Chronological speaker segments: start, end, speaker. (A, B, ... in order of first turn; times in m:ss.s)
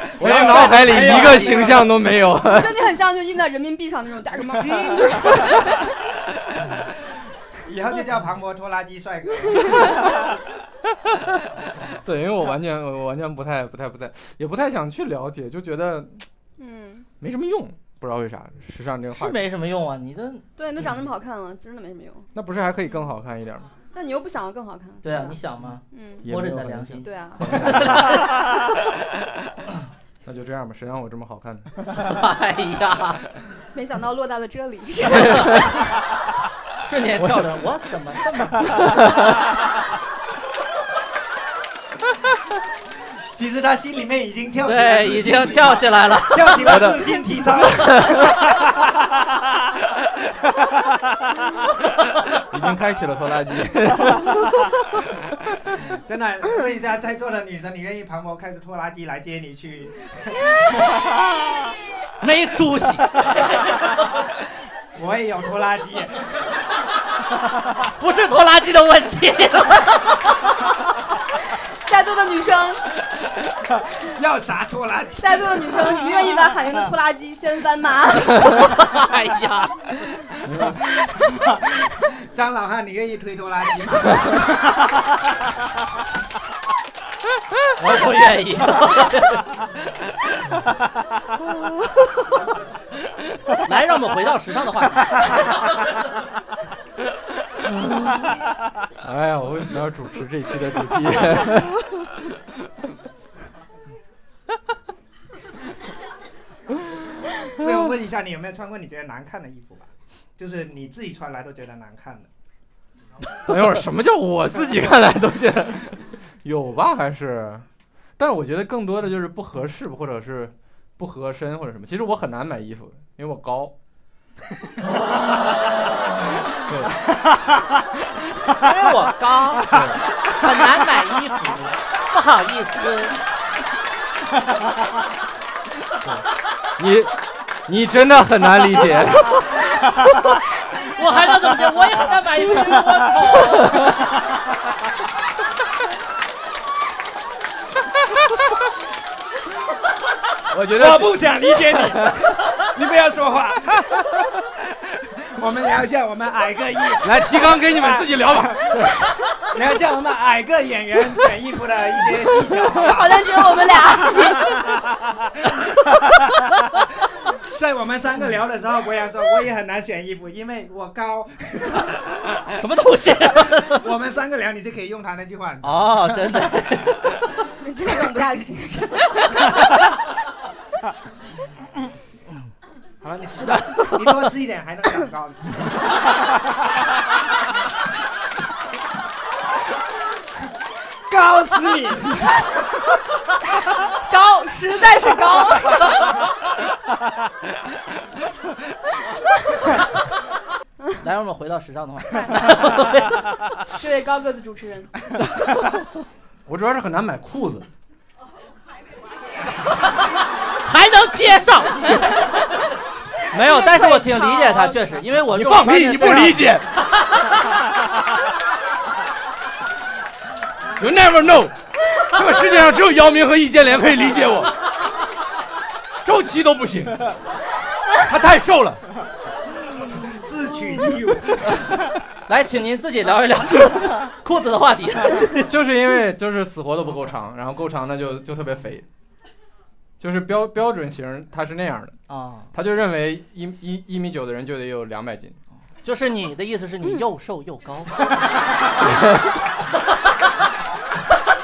0:00.1-0:02.9 A
0:00.2-0:02.1 B
0:00.9-0:01.5 C
0:02.4-0:05.9 C
0:07.6-0:10.3 B
0:11.9-0:16.3 A
0:16.6-0:17.1 C
0:17.2-0:19.4 A
0:19.1-0:20.5 D
0:20.6-0:22.3 C
0:22.3-0:23.7 A
0:23.9-0:25.4 C
0:25.0-0:28.5 D
0:25.9-0:26.3 C
0:26.2-0:28.3 A
0:27.0-0:28.0 C
0:30.2-0:31.8 A
0:32.0-0:33.2 D
0:33.7-0:35.8 C
0:36.8-0:39.0 D
0:43.3-0:48.2 B
0:44.6-0:46.8 D
0:46.6-0:47.0 A
0:47.8-0:48.2 A
0:52.5-0:54.7 A
0:55.8-1:00.6 B
1:02.2-1:03.7 D
1:05.0-1:06.3 B
1:08.0-1:10.2 D
1:11.8-1:12.8 C
1:14.0-1:15.7 B
1:15.2-1:19.0 C
1:18.8-1:20.0 D
1:20.4-1:20.9 A
1:21.2-1:24.5 B
1:27.8-1:29.5 D
1:33.6-1:35.3 D
1:37.7-1:38.3 A
1:39.0-1:41.8 A
1:47.5-1:52.3 B
1:53.4-1:57.7 A
1:58.2-2:03.7 A
2:06.6-2:07.1 A
2:08.5-2:13.2 D
2:09.7-2:10.0 A
2:16.8-2:17.2 A
2:17.7-2:19.6 A
2:20.8-2:23.9 D
2:30.5-2:32.3 A
2:30.7-2:34.3 B
2:34.9-2:38.9 B
2:37.0-2:39.1 A
2:39.5-2:43.3 B
2:42.8-2:44.7 C
2:47.4-2:52.5 B
2:52.5-2:53.9 D
2:53.6-2:56.4 B
2:55.6-2:57.2 D
2:57.6-2:59.4 C
3:03.0-3:05.7 B
3:11.1-3:12.4 B
3:14.1-3:16.2 C
3:21.0-3:23.3 D
3:22.1-3:22.7 C
3:23.7-3:24.9 C
3:26.5-3:27.7 A
3:30.6-3:32.2 D
3:33.3-3:36.4 D
3:33.4-3:34.8 C
3:35.3-3:36.8 A
3:40.8-3:44.6 A
3:46.0-3:47.2 A
3:48.0-3:48.8 A
3:50.0-3:51.6 B
3:52.3-3:55.5 D
3:55.5-3:58.9 A
4:00.0-4:02.0 A
4:02.1-4:02.5 D
4:02.5-4:05.4 A
4:05.8-4:08.1 D